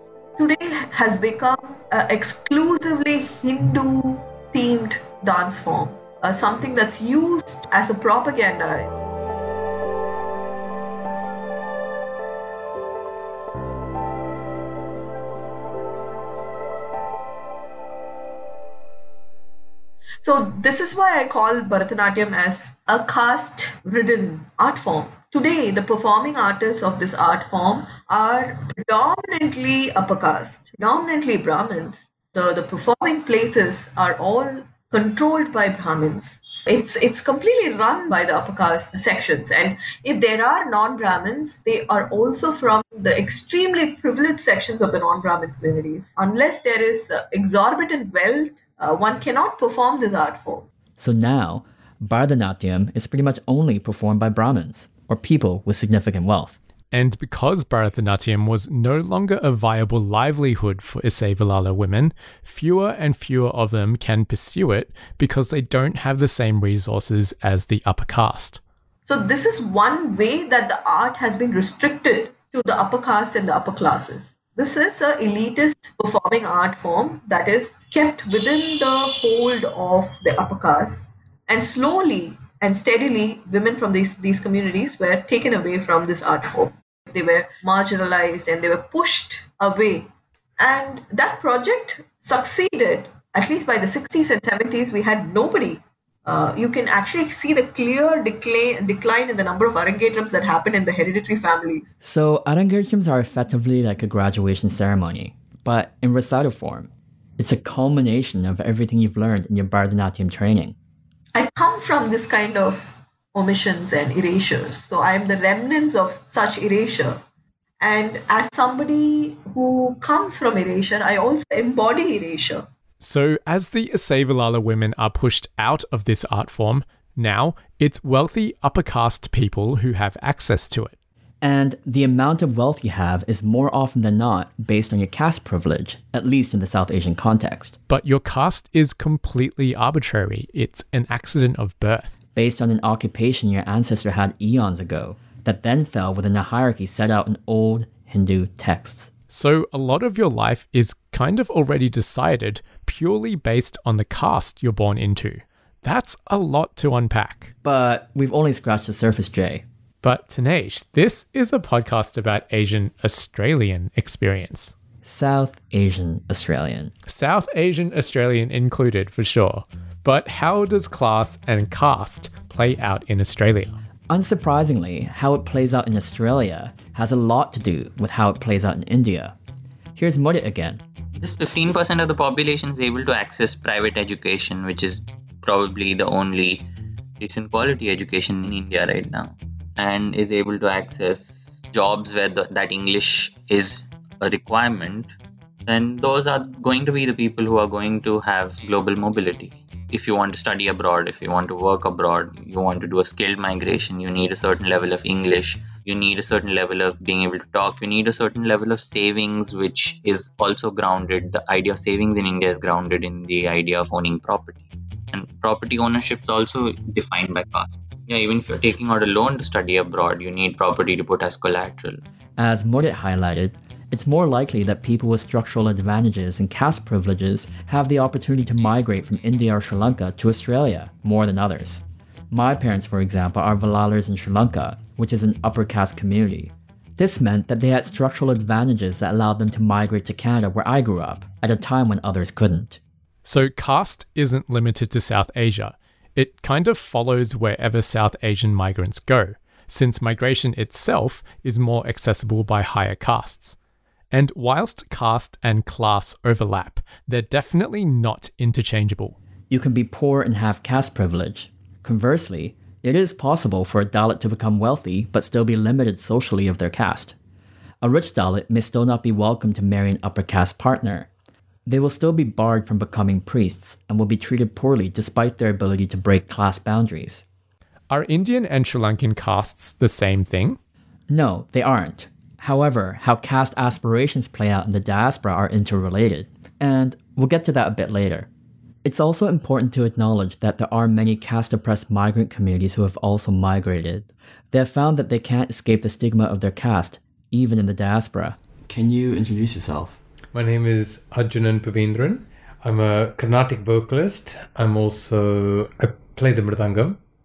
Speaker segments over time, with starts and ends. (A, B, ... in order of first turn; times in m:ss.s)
0:00.4-0:08.9 A
0:20.2-0:50.7 A
0:51.0-0:56.6 B
0:56.9-1:08.6 C
1:09.0-1:41.9 A
1:42.0-1:50.8 B
1:51.3-1:57.2 A
1:57.8-2:02.7 A
2:03.0-2:10.9 C
2:11.4-2:17.8 B
2:17.9-2:22.2 C
2:22.3-2:29.1 B
2:29.3-2:37.5 C
2:37.6-2:39.6 B
2:40.0-2:44.7 C
2:45.0-2:46.9 B
2:47.1-2:53.8 C
2:54.1-2:59.3 B
3:00.0-3:00.8 B
3:01.2-3:15.1 D
3:15.6-3:42.0 D
3:42.4-4:02.8 B
4:03.2-4:13.6 C
4:14.1-4:19.2 C
4:19.5-4:27.2 B
4:27.8-4:31.1 B
4:31.6-4:37.2 B
4:37.9-4:40.6 C
4:41.1-4:48.3 B
4:48.8-5:00.0 B
5:00.3-5:07.0 E